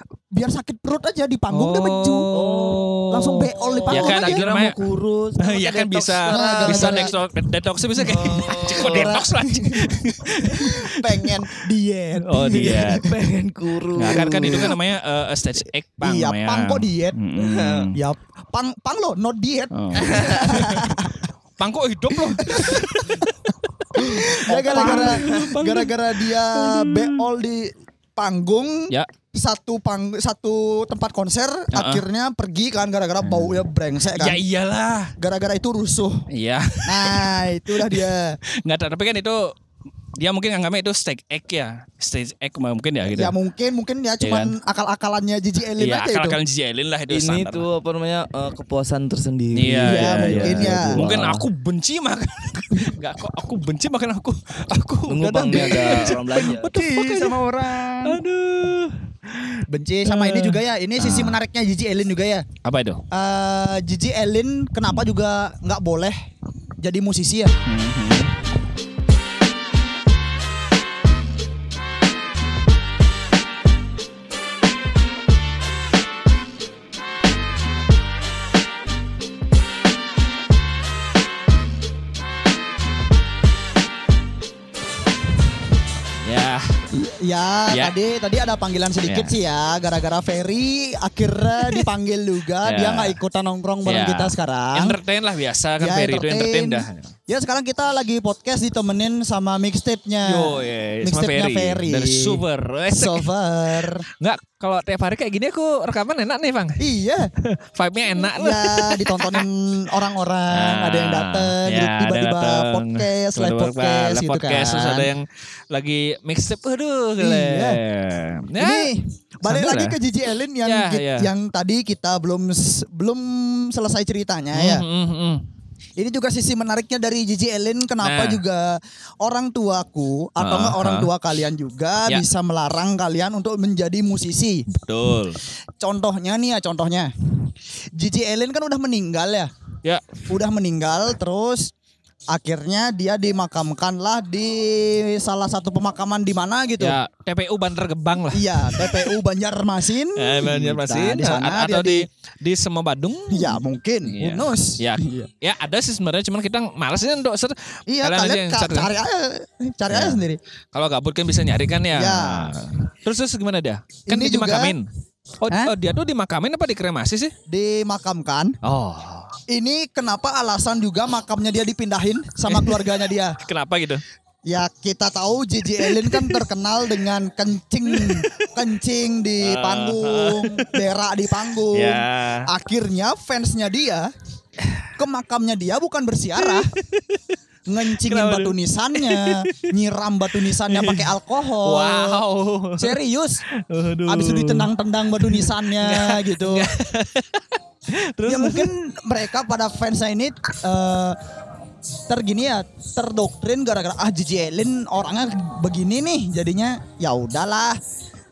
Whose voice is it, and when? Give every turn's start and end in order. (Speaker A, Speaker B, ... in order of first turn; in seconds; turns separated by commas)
Speaker A: 0.3-2.3, Speaker B: 1.5-4.8, Speaker C: 2.3-2.9, Speaker A: 3.1-4.4, Speaker C: 3.5-7.2, Speaker B: 5.4-11.6, Speaker A: 6.3-7.1, Speaker C: 8.0-9.2, Speaker A: 8.0-13.1, Speaker B: 12.2-13.1, Speaker C: 12.5-14.8, Speaker B: 14.0-18.0, Speaker A: 14.0-14.7, Speaker A: 16.0-17.2, Speaker C: 17.4-17.9, Speaker A: 17.9-21.2, Speaker B: 19.7-27.3, Speaker C: 20.0-20.5, Speaker A: 22.4-23.3, Speaker A: 23.9-34.4, Speaker C: 24.5-25.4, Speaker B: 31.7-32.0, Speaker B: 33.2-33.6, Speaker B: 34.1-35.1, Speaker A: 35.2-36.2, Speaker B: 36.3-38.1, Speaker A: 36.9-38.4, Speaker B: 38.6-39.5, Speaker B: 40.1-43.3, Speaker A: 43.1-46.4, Speaker B: 44.2-44.5, Speaker B: 45.8-47.7, Speaker C: 47.1-51.5, Speaker B: 49.6-57.4, Speaker A: 49.8-51.1, Speaker C: 55.1-58.1, Speaker A: 55.5-57.2, Speaker B: 58.0-61.4, Speaker A: 59.7-62.5, Speaker B: 62.6-63.0, Speaker A: 63.1-66.2, Speaker A: 66.8-67.5, Speaker B: 67.7-68.3, Speaker B: 86.2-86.8, Speaker A: 86.9-95.0, Speaker B: 89.1-89.3, Speaker B: 92.6-93.2, Speaker B: 93.9-97.1, Speaker A: 95.8-104.0, Speaker B: 100.2-103.3, Speaker B: 103.8-106.8, Speaker A: 106.8-107.3, Speaker B: 107.4-109.5, Speaker A: 108.2-115.1, Speaker B: 110.5-118.9, Speaker A: 117.2-117.8, Speaker A: 118.6-124.8, Speaker B: 119.5-120.0, Speaker B: 120.6-121.3, Speaker B: 124.5-125.4, Speaker A: 126.0-134.6, Speaker B: 128.0-128.4, Speaker B: 130.4-131.1, Speaker B: 134.7-135.4, Speaker A: 135.8-139.5, Speaker A: 140.3-141.7, Speaker A: 142.3-147.0, Speaker B: 146.8-149.1, Speaker A: 148.3-152.1, Speaker B: 150.2-158.9, Speaker A: 153.3-155.3, Speaker A: 157.9-160.4, Speaker B: 159.9-160.2, Speaker B: 160.7-164.9, Speaker A: 161.9-162.5, Speaker A: 164.1-164.8, Speaker B: 165.4-167.3, Speaker A: 167.5-168.6, Speaker B: 168.6-169.4, Speaker A: 169.5-173.3, Speaker B: 172.5-174.0, Speaker A: 174.5-184.1, Speaker B: 175.8-176.4, Speaker B: 177.9-178.5, Speaker B: 179.4-180.8, Speaker B: 181.7-182.5, Speaker A: 185.0-186.7, Speaker B: 186.4-187.2, Speaker A: 187.7-192.2, Speaker B: 187.9-189.7, Speaker B: 190.6-193.0, Speaker A: 192.8-193.4, Speaker B: 193.6-194.7, Speaker A: 194.1-196.7, Speaker B: 195.2-198.7, Speaker A: 198.3-201.2, Speaker A: 202.1-207.8